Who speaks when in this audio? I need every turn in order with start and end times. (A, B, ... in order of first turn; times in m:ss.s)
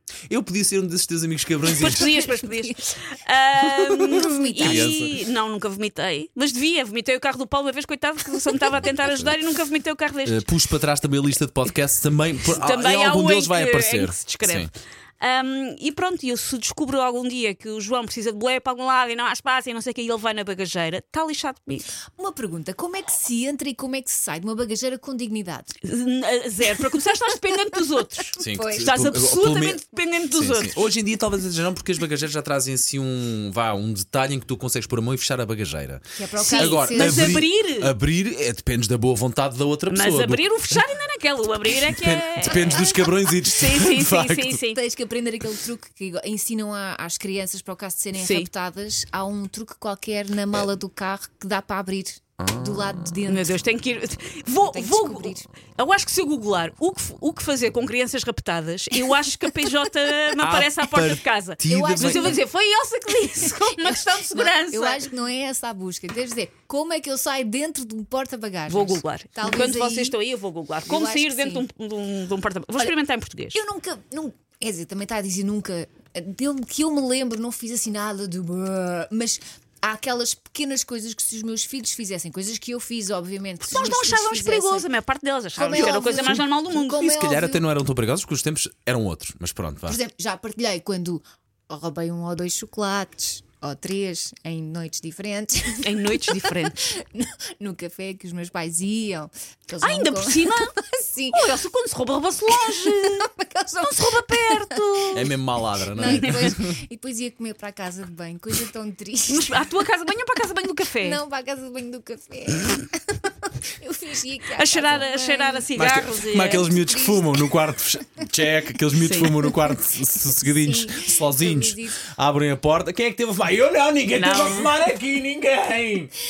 0:00.3-0:02.2 A
0:01.7-0:10.5 B
0:02.0-0:02.8 C
0:03.7-0:05.1 A
0:04.0-0:05.1 C
0:08.8-0:09.3 A
0:10.2-0:14.7 A
0:12.5-0:21.9 B
0:22.1-0:25.7 C
0:25.8-0:30.8 B
0:28.4-0:29.0 C
0:28.4-0:40.8 A
0:36.2-0:37.4 C
0:36.4-0:37.9 B
0:39.9-0:44.8 B
0:41.8-0:44.6 A
0:44.7-0:53.6 C
0:48.2-0:48.5 B
0:52.4-0:53.2 A
0:53.3-1:05.0 B
0:54.7-0:55.5 C
1:00.4-1:02.4 A
1:01.7-1:02.4 C
1:03.4-1:10.2 C
1:08.7-1:13.6 B
1:10.8-1:11.6 C
1:13.5-1:24.9 C
1:23.6-1:27.0 B
1:25.6-1:27.6 C
1:25.6-1:30.0 A
1:29.9-1:41.6 C
1:35.8-1:36.8 B
1:39.8-1:40.7 B
1:41.3-1:45.3 B
1:42.6-1:45.2 C
1:45.1-1:46.7 A
1:45.9-1:49.6 C
1:46.0-1:46.6 B
1:49.3-1:51.2 B
1:51.0-1:55.7 C
1:54.6-1:56.7 B
1:55.7-2:06.1 A
1:56.6-1:57.5 C
1:59.0-1:59.5 B
2:00.4-2:02.0 C
2:04.2-2:04.7 B